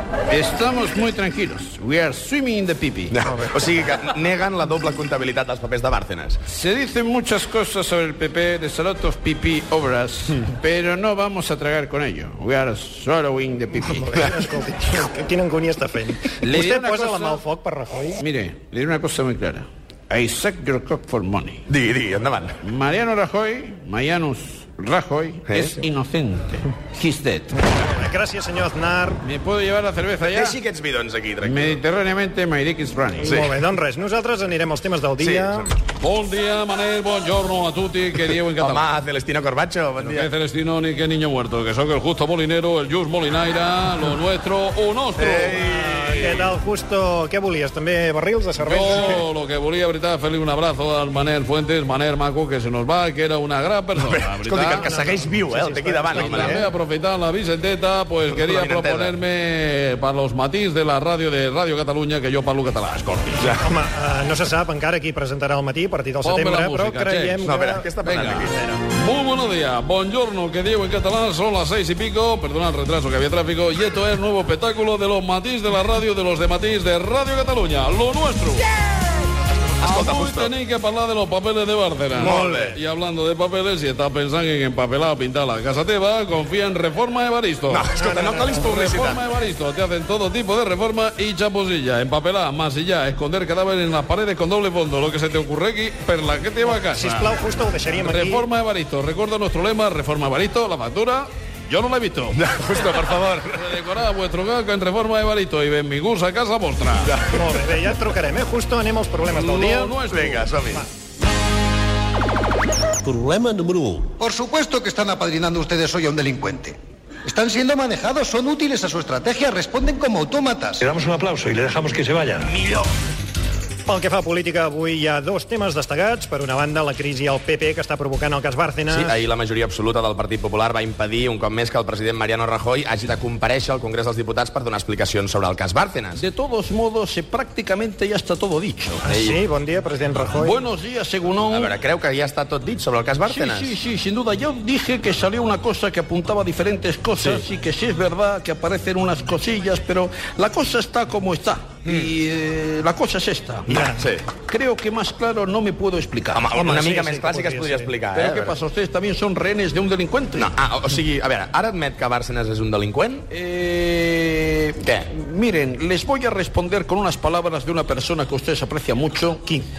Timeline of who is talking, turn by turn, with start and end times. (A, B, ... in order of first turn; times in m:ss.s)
0:00.3-0:03.1 A
0:00.6-0:01.7 B
0:03.1-0:06.4 C
0:03.2-0:03.6 D
0:06.6-0:14.2 A
0:08.9-0:09.3 B
0:13.7-0:18.2 D
0:16.4-0:17.4 A
0:18.2-0:21.6 A
0:21.7-0:22.6 C
0:22.6-0:27.6 A
0:25.5-0:25.8 C
0:27.8-0:29.2 D
0:29.3-0:30.5 A
0:29.6-0:30.5 B
0:30.2-0:31.8 C
0:31.4-0:33.3 A
0:33.2-0:35.7 D
0:33.2-0:33.5 C
0:35.2-0:35.7 C
0:36.0-0:38.8 B
0:38.2-0:40.3 C
0:40.1-0:45.6 B
0:45.2-0:46.5 C
0:45.6-0:49.3 D
0:48.6-0:54.9 B
0:54.0-0:56.6 C
0:54.7-0:56.7 D
0:56.2-1:03.2 B
0:58.3-0:59.2 C
1:02.0-1:02.7 A
1:03.4-1:03.7 C
1:03.6-1:07.9 D
1:06.2-1:07.3 B
1:07.4-1:08.5 C
1:08.1-1:08.4 A
1:08.1-1:08.4 B
1:08.4-1:08.8 D
1:09.0-1:18.6 B
1:19.8-1:20.5 C
1:19.8-1:27.8 B
1:22.1-1:22.8 C
1:22.3-1:22.8 D
1:27.7-1:29.2 C
1:27.9-1:28.7 D
1:28.6-1:37.3 B
1:30.8-1:31.3 A
1:32.5-1:32.8 A
1:36.6-1:38.4 D
1:38.1-1:42.1 B
1:39.0-1:41.1 A
1:42.0-1:42.4 A
1:42.3-1:43.6 C
1:43.6-1:47.1 B
1:47.0-1:47.5 C
1:47.3-1:50.0 D
1:49.4-1:50.4 B
1:50.1-1:50.8 C
1:53.0-2:02.5 E
2:03.9-2:09.2 D
2:08.9-2:16.2 C
2:16.2-2:19.0 A
2:19.1-2:19.4 C
2:19.2-2:20.6 D
2:20.4-2:21.7 A
2:21.5-2:23.7 C
2:23.3-2:33.7 A
2:29.2-2:30.3 B
2:33.7-2:34.0 D
2:33.7-2:34.2 C
2:34.5-2:36.4 A
2:36.3-2:38.6 C
2:36.5-2:37.9 D
2:38.2-2:40.4 A
2:40.4-2:43.2 C
2:43.3-2:49.4 A
2:44.8-2:45.1 C
2:46.9-2:47.2 B
2:48.0-2:48.4 B